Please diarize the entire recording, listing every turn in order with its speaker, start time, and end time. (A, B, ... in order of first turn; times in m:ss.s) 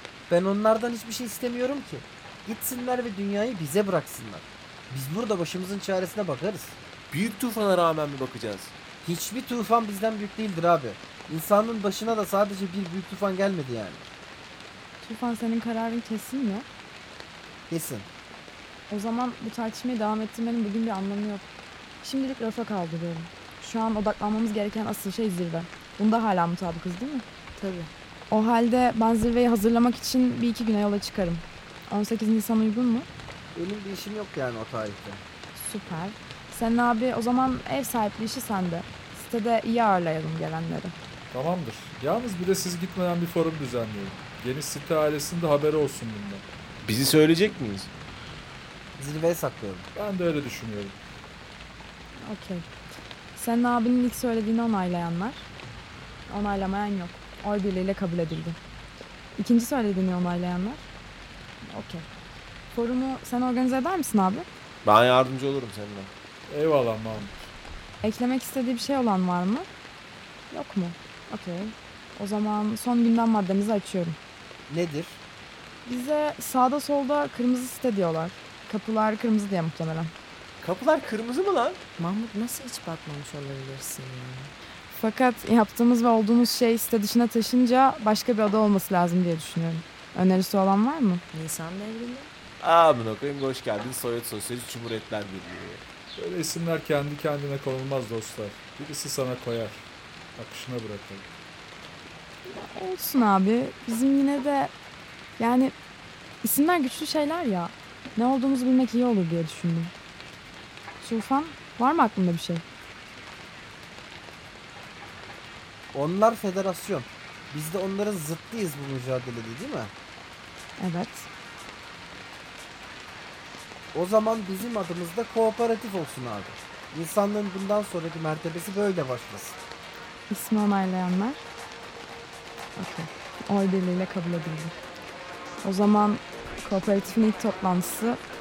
0:00.3-0:06.8 A
0:07.1-0:08.7 B
0:09.0-0:14.0 A
0:15.0-0:16.6 C
0:17.7-0:18.1 A
0:18.9-0:21.5 C
0:22.0-0:27.2 C
0:27.6-0:27.9 D
0:28.3-0:33.1 C
0:33.5-0:35.2 A
0:35.5-0:40.9 C
0:41.3-0:46.4 E
0:46.8-0:47.9 B
0:49.0-0:49.8 A
0:49.9-0:51.0 E
0:52.2-0:52.6 C
0:53.3-0:55.4 C
0:56.3-0:58.6 C
0:59.4-1:00.9 C
1:01.6-1:02.1 C
1:02.7-1:04.4 C
1:04.8-1:06.1 B
1:06.5-1:07.5 E
1:08.0-1:09.6 C
1:10.5-1:14.2 C
1:14.7-1:15.2 A
1:15.8-1:20.1 C
1:20.6-1:21.8 B
1:22.0-1:24.5 D
1:24.9-1:31.2 C
1:31.3-1:32.3 D
1:32.6-1:35.8 B
1:36.2-1:41.2 E
1:42.5-1:44.7 C
1:45.4-1:45.7 C
1:46.4-1:49.9 C
1:51.0-1:52.6 C
1:55.9-1:59.9 A
2:00.8-2:01.3 C
2:03.9-2:09.6 A
2:10.3-2:11.4 C
2:12.8-2:14.7 C
2:15.6-2:18.2 C